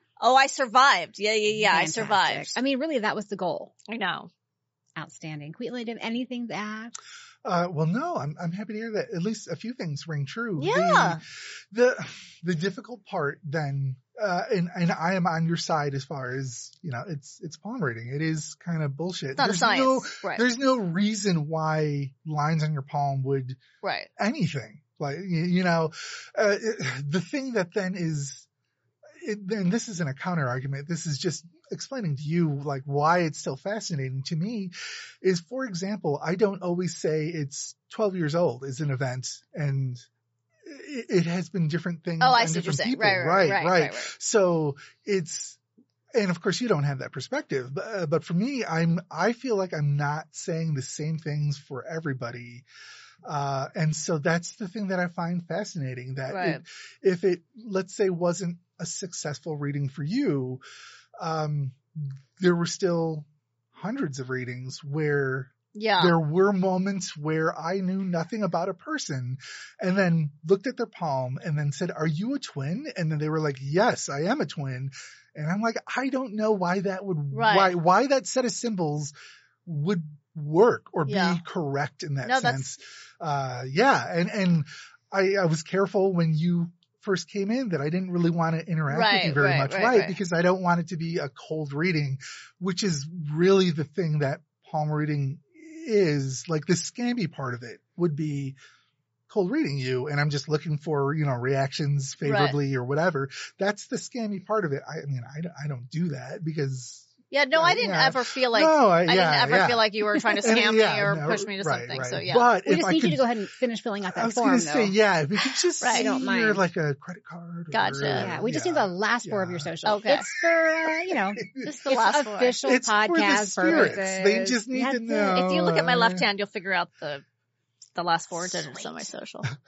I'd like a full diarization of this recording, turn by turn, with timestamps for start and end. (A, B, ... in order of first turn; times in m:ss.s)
0:00.2-0:02.6 A
0:01.5-0:03.7 B
0:03.9-0:04.3 A
0:05.0-0:06.9 B
0:07.4-0:23.6 C
0:10.6-0:11.2 A
0:19.4-0:20.4 A
0:23.8-0:24.1 A
0:24.2-0:28.5 C
0:29.2-0:40.0 C
0:40.6-0:45.6 C
0:42.2-0:44.1 A
0:46.1-0:52.6 C
0:53.2-1:00.6 C
0:56.3-0:56.6 A
1:01.2-1:19.1 C
1:05.7-1:06.2 A
1:17.3-1:17.7 A
1:19.6-1:38.6 C
1:21.1-1:21.4 A
1:22.2-1:22.6 A
1:28.9-1:30.2 A
1:39.3-1:49.9 C
1:42.2-1:42.6 A
1:47.3-1:52.5 A
1:50.4-1:53.3 C
1:52.6-1:54.9 B
1:54.1-1:59.7 C
1:55.8-1:56.1 A
1:55.9-1:56.6 B
1:57.7-1:58.3 A
1:58.1-2:05.4 B
1:59.8-2:00.2 A
2:01.1-2:01.7 C
2:01.6-2:02.6 A
2:02.6-2:06.2 C
2:05.2-2:07.2 A
2:08.0-2:09.5 A
2:08.5-2:09.1 B